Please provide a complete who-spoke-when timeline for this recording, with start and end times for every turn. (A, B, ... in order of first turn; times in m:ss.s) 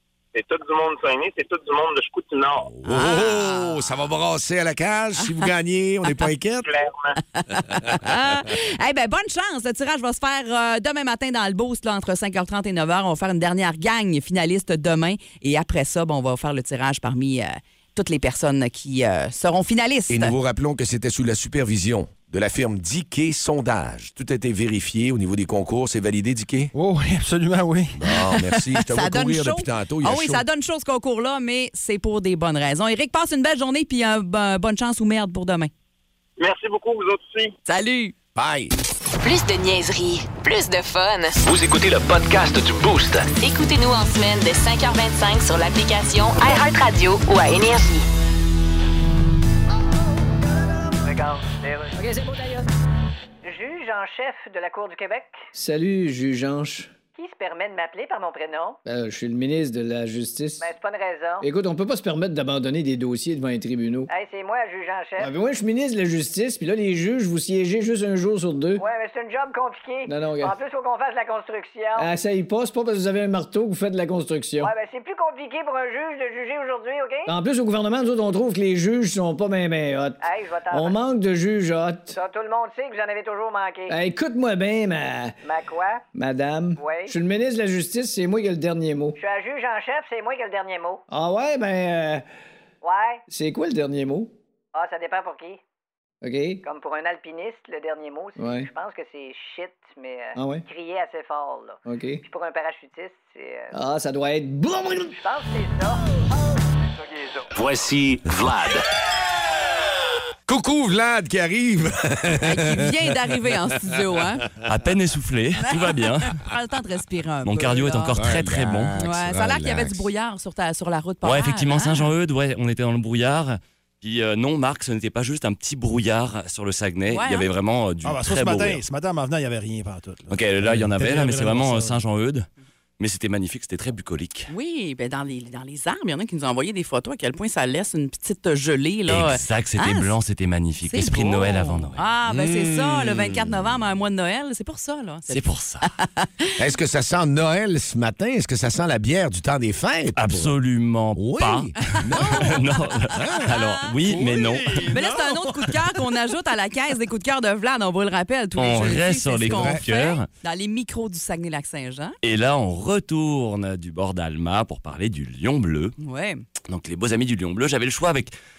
0:00.3-0:02.7 A
0:02.7-0:06.6 B
0:02.9-0:03.8 C
0:06.6-0:07.2 A
0:07.3-0:20.3 C
0:20.1-0:26.7 B
0:26.7-0:28.0 D
0:28.0-0:30.4 B
0:28.1-0:35.7 C
0:36.4-0:37.5 A
0:37.7-0:38.1 C
0:38.3-0:38.7 B
0:39.2-0:41.4 E
0:41.4-0:43.3 F
0:43.3-0:48.1 E
0:51.0-0:52.7 G
0:53.4-0:55.4 G
0:55.5-0:56.9 H
0:57.1-0:58.8 G
0:58.8-1:00.7 H
1:00.6-1:01.5 G
1:01.4-1:04.1 H
1:04.1-1:05.3 G
1:05.2-1:08.8 H
1:08.8-1:12.1 G
1:10.0-1:10.6 H
1:12.0-1:14.7 H
1:14.6-1:17.3 G
1:17.2-1:22.1 H
1:20.2-1:21.0 G
1:22.1-1:24.0 G
1:23.9-1:25.4 H
1:25.4-1:26.1 G
1:26.1-1:29.2 H
1:26.8-1:27.2 G
1:29.2-1:31.0 G
1:31.1-1:32.2 H
1:32.8-1:33.2 G
1:33.3-1:34.3 H
1:34.7-1:35.6 G
1:36.2-1:36.6 H
1:36.6-1:43.8 G
1:38.4-1:38.7 H
1:40.4-1:40.6 H
1:41.8-1:42.2 H
1:43.7-1:45.2 H
1:45.1-1:46.1 G
1:47.0-1:47.4 G
1:47.5-1:48.8 F
1:50.5-1:53.0 B
1:52.4-1:54.5 C
1:54.6-1:56.4 I
1:55.6-1:58.2 C
1:57.4-1:59.0 I
1:58.1-2:00.1 B
1:59.0-2:02.1 C
2:01.2-2:08.8 I
2:07.1-2:07.5 C
2:08.0-2:12.0 D
2:10.3-2:12.5 I
2:13.0-2:14.5 I
2:14.5-2:20.1 C
2:19.1-2:22.0 I
2:20.8-2:26.5 C
2:22.3-2:23.5 B
2:25.3-2:25.9 I
2:26.6-2:30.5 B
2:30.2-2:34.9 I
2:31.1-2:33.6 B
2:31.9-2:34.0 C
2:34.0-2:36.2 D
2:34.8-2:42.2 C
2:38.6-2:40.3 I
2:39.4-2:39.8 B
2:42.2-2:46.0 I
2:46.0-2:46.4 C
2:46.7-2:48.3 I